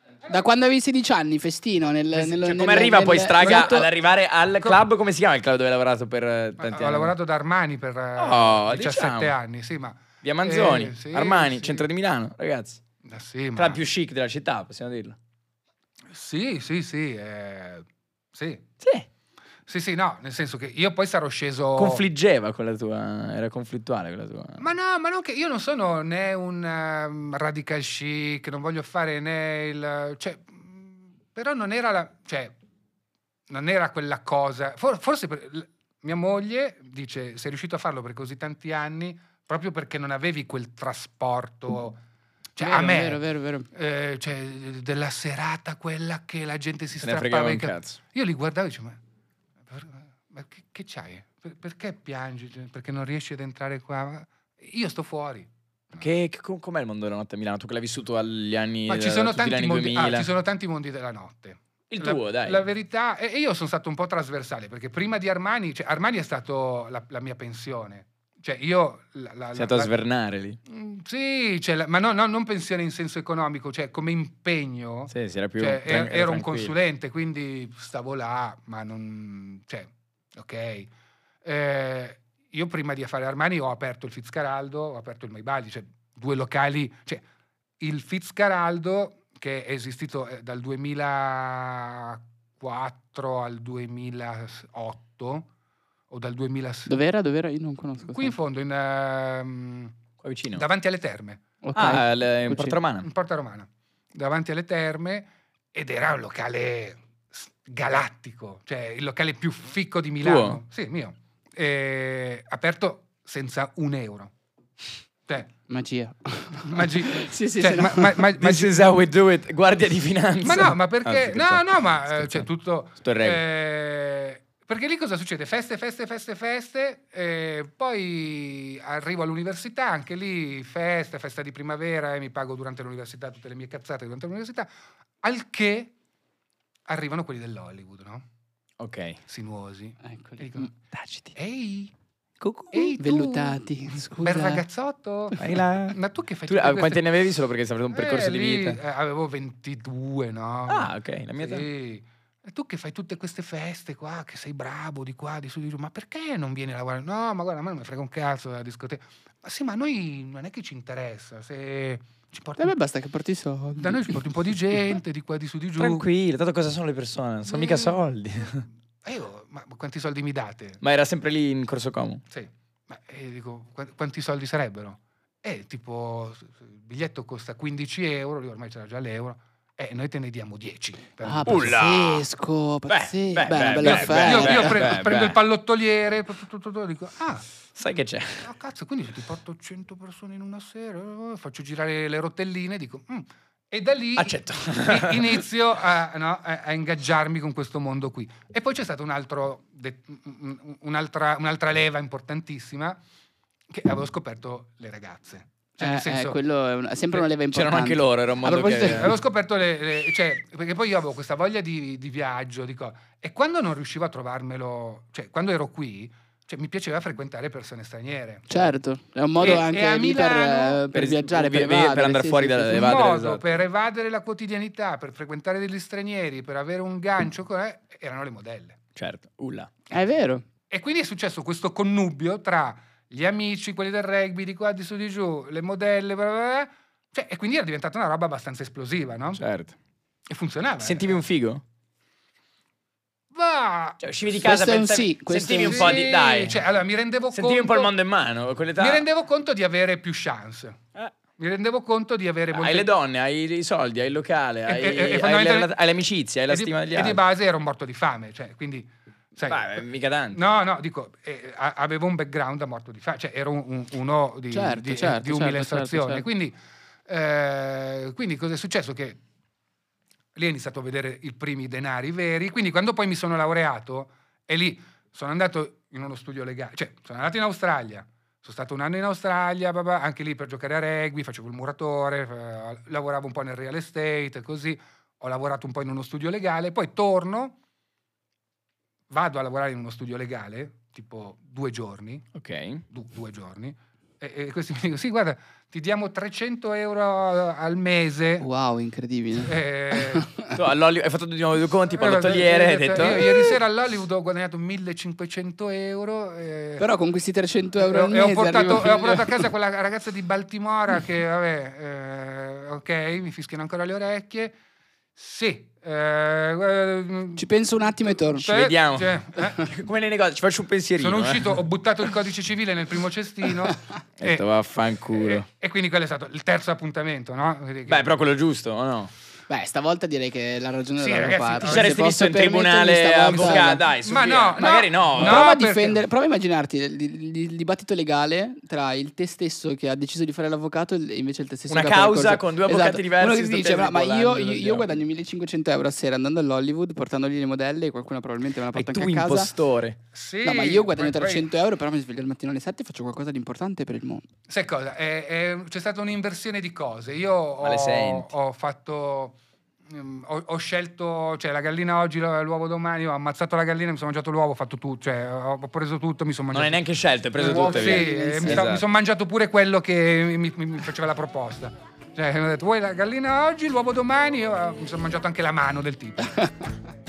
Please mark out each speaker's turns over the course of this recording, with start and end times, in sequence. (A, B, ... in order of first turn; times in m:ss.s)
0:00.3-0:03.8 A
0:02.1-0:07.1 B
0:03.4-0:03.9 C
0:06.6-0:11.9 C
0:08.2-0:09.3 B
0:10.2-0:12.8 B
0:13.0-0:13.8 C
0:13.5-0:15.2 B
0:16.1-0:18.6 C
0:18.8-0:19.0 B
0:19.7-0:22.0 C
0:21.8-0:24.6 B
0:24.6-0:32.5 C
0:33.5-0:42.0 C
0:42.6-0:49.0 C
0:42.6-0:43.7 A
0:47.0-0:48.0 B
0:49.7-0:56.1 C
0:56.0-1:00.3 B
0:58.9-1:09.9 C
1:01.9-1:02.6 B
1:09.5-1:10.6 B
1:10.7-1:20.9 C
1:15.1-1:16.7 B
1:21.4-1:27.2 C
1:27.8-1:35.5 C
1:36.1-1:37.0 C
1:36.9-1:38.3 A
1:38.1-1:39.9 C
1:40.2-1:40.6 B
1:40.5-1:41.4 C
1:41.6-1:42.8 A
1:41.7-1:43.1 B
1:43.0-1:54.3 C
1:50.2-1:50.6 B
1:55.3-1:55.5 C
1:55.7-1:58.2 A
1:56.6-1:58.8 C
1:58.4-2:02.5 B
2:00.4-2:14.7 C
2:03.0-2:03.4 B
2:15.2-2:15.9 C
2:16.9-2:18.2 C
2:18.8-2:19.2 B
2:19.3-2:20.7 C
2:20.0-2:20.7 A
2:20.9-2:21.3 B
2:21.3-2:21.9 C
2:22.4-2:23.0 B
2:22.7-2:27.0 C
2:23.0-2:24.6 A
2:25.4-2:28.8 B
2:27.9-2:42.7 C
2:30.7-2:31.7 B
2:42.6-2:44.2 A
2:43.8-2:46.0 C
2:45.8-2:48.6 B
2:47.5-2:48.0 C
2:49.0-2:50.8 C
2:50.8-2:52.2 B
2:52.3-3:01.8 C
3:01.2-3:04.9 A
3:01.4-3:02.2 B
3:02.9-3:05.4 B
3:03.8-3:07.4 C
3:07.7-3:08.5 B
3:08.4-3:23.0 C
3:14.2-3:15.4 B
3:23.7-3:26.4 C
3:25.8-3:29.1 A
3:27.5-3:29.2 B
3:28.9-3:38.7 C
3:38.5-3:43.0 A
3:39.4-3:40.8 C
3:40.9-3:43.4 B
3:42.7-3:48.8 C
3:49.0-3:49.7 B
3:49.9-3:50.4 A
3:50.7-3:59.4 C
3:59.4-3:59.7 B
4:00.3-4:01.2 C
4:00.8-4:01.6 B
4:03.3-4:04.0 C
4:04.0-4:06.6 B
4:04.4-4:06.0 A
4:05.6-4:07.9 C
4:07.3-4:09.0 B
4:08.8-4:10.8 C
4:11.4-4:12.9 C
4:12.5-4:17.2 B
4:14.7-4:15.7 C
4:16.5-4:29.2 C
4:19.4-4:20.4 B
4:24.5-4:26.2 A
4:30.3-4:47.6 C
4:49.1-4:52.2 C
4:52.3-4:52.8 B
4:52.9-4:58.5 C
4:58.4-5:00.5 A
4:59.4-5:00.3 C
5:00.5-5:03.4 B
5:01.9-5:06.8 C
5:06.8-5:09.4 A
5:07.8-5:14.5 C
5:15.2-5:17.5 C
5:17.4-5:18.5 A
5:18.4-5:21.5 B
5:18.4-5:19.7 C
5:21.0-5:24.4 C
5:24.2-5:25.4 B
5:25.1-5:28.0 C
5:27.9-5:29.1 B
5:29.5-5:33.8 A
5:31.0-5:32.0 C
5:31.6-5:35.5 B
5:33.3-5:36.0 C
5:35.1-5:49.5 A
5:41.7-5:44.9 B
5:48.7-5:50.0 B
5:50.1-5:51.5 C
5:50.4-5:54.3 A
5:54.5-6:06.8 C
5:57.6-5:58.3 B
6:06.5-6:08.8 B
6:07.4-6:16.5 C
6:07.4-6:08.6 A